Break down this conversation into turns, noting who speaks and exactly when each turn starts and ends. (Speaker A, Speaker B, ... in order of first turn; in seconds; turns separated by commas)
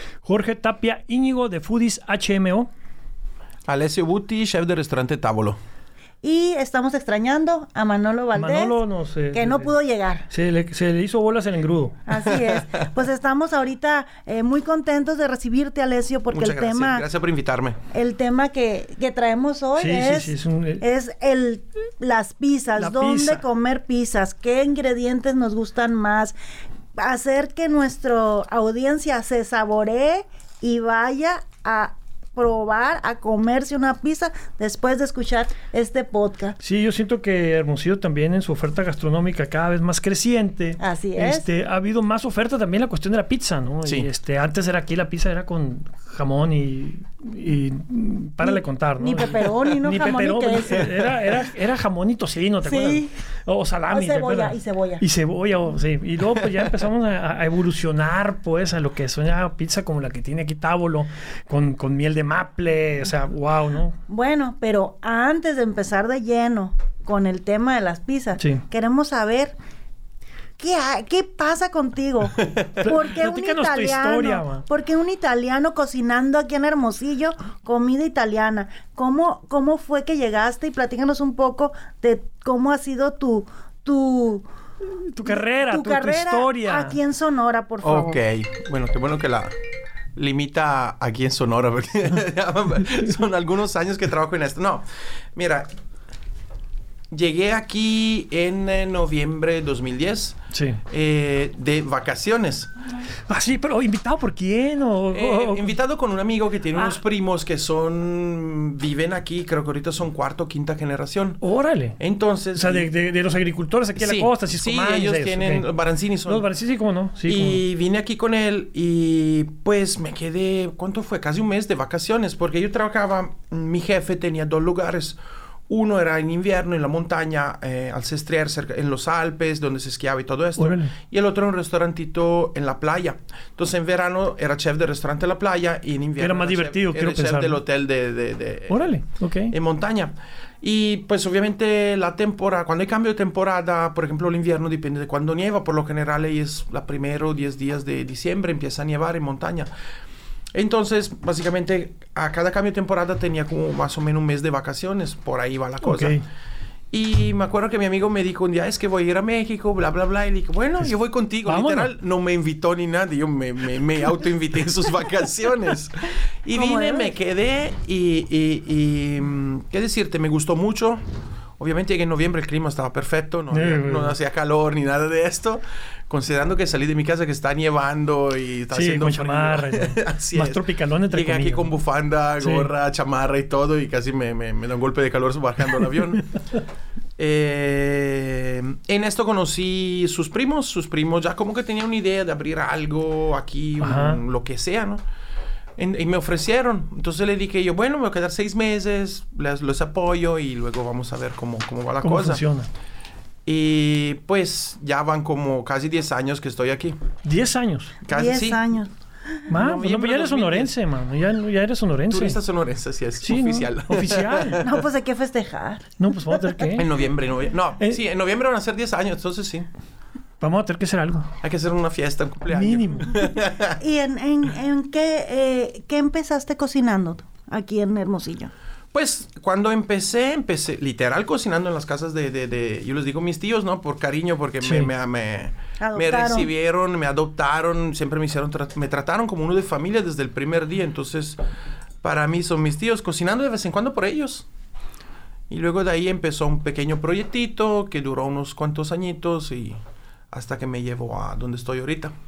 Speaker A: 0.2-2.7, Speaker B: 3.7-5.6, Speaker C: 6.2-8.8, Speaker A: 8.3-9.7, Speaker C: 9.3-10.3, Speaker A: 10.3-12.0, Speaker C: 12.1-17.1, Speaker B: 12.3-12.8, Speaker B: 16.3-17.8, Speaker C: 17.9-26.4, Speaker A: 19.8-20.8, Speaker A: 22.8-23.4, Speaker C: 27.0-36.5, Speaker A: 36.6-64.0, Speaker C: 40.8-41.5, Speaker C: 48.4-51.0, Speaker C: 52.6-53.1, Speaker C: 53.9-55.0, Speaker C: 64.1-69.5, Speaker C: 70.6-84.5, Speaker A: 72.8-74.6, Speaker A: 85.1-87.0, Speaker C: 85.2-88.2, Speaker B: 87.8-89.5, Speaker B: 90.1-95.7, Speaker B: 97.1-102.7, Speaker A: 100.5-100.8, Speaker A: 103.3-105.7, Speaker B: 105.1-111.4, Speaker A: 111.4-112.0, Speaker B: 112.0-112.9, Speaker A: 112.5-115.7, Speaker B: 114.0-116.5, Speaker A: 116.3-117.6, Speaker B: 117.2-138.8, Speaker A: 130.6-130.9, Speaker A: 136.2-137.6, Speaker A: 138.7-139.5, Speaker B: 139.5-149.7, Speaker B: 150.5-156.2, Speaker A: 155.8-156.2, Speaker B: 156.9-171.0, Speaker A: 161.4-161.9, Speaker C: 166.5-167.2, Speaker B: 171.6-186.3, Speaker A: 173.5-174.1, Speaker A: 178.7-181.7, Speaker A: 182.4-182.7, Speaker B: 187.2-195.0, Speaker A: 193.8-194.2, Speaker B: 195.8-202.4, Speaker A: 202.0-202.7, Speaker B: 203.4-207.0, Speaker A: 207.2-207.9, Speaker B: 208.0-208.6, Speaker C: 208.1-208.9, Speaker B: 209.5-210.7, Speaker A: 209.5-212.4, Speaker B: 212.1-214.6, Speaker A: 213.2-214.6, Speaker C: 214.6-216.6, Speaker A: 216.0-216.9, Speaker B: 216.8-219.7, Speaker A: 220.4-221.3, Speaker B: 221.4-223.8, Speaker A: 222.5-223.1, Speaker C: 223.8-228.5, Speaker B: 228.9-241.4, Speaker A: 234.6-234.9, Speaker C: 235.8-236.5, Speaker B: 242.0-244.4, Speaker B: 245.5-249.8, Speaker B: 250.3-252.1